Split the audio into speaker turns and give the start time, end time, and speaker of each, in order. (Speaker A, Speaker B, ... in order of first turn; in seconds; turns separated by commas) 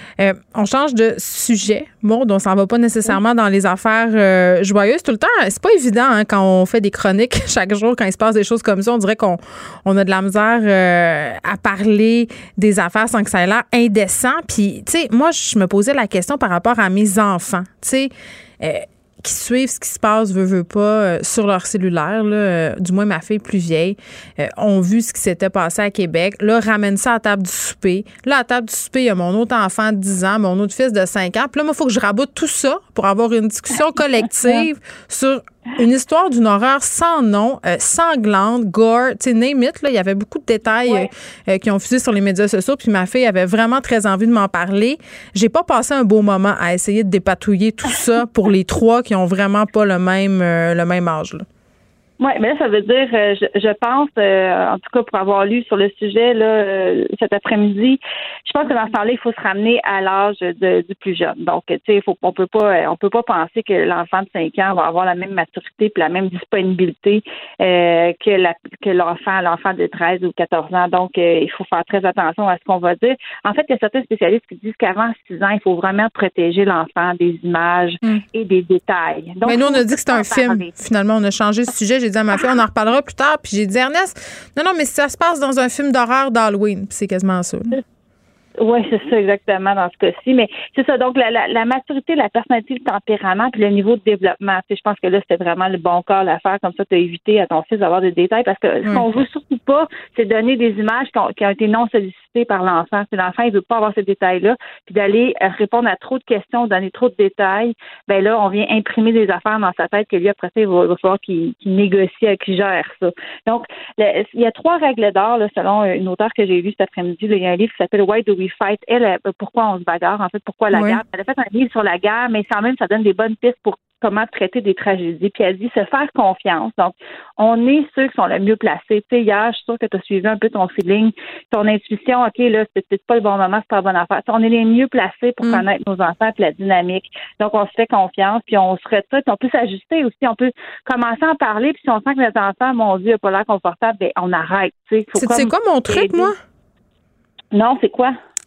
Speaker A: 0.2-51.4, Speaker B: 52.2-58.0, Speaker B: 58.5-80.7, Speaker A: 79.4-87.8, Speaker B: 88.6-146.2, Speaker A: 120.7-121.0, Speaker A: 145.1-146.3, Speaker B: 147.6-148.1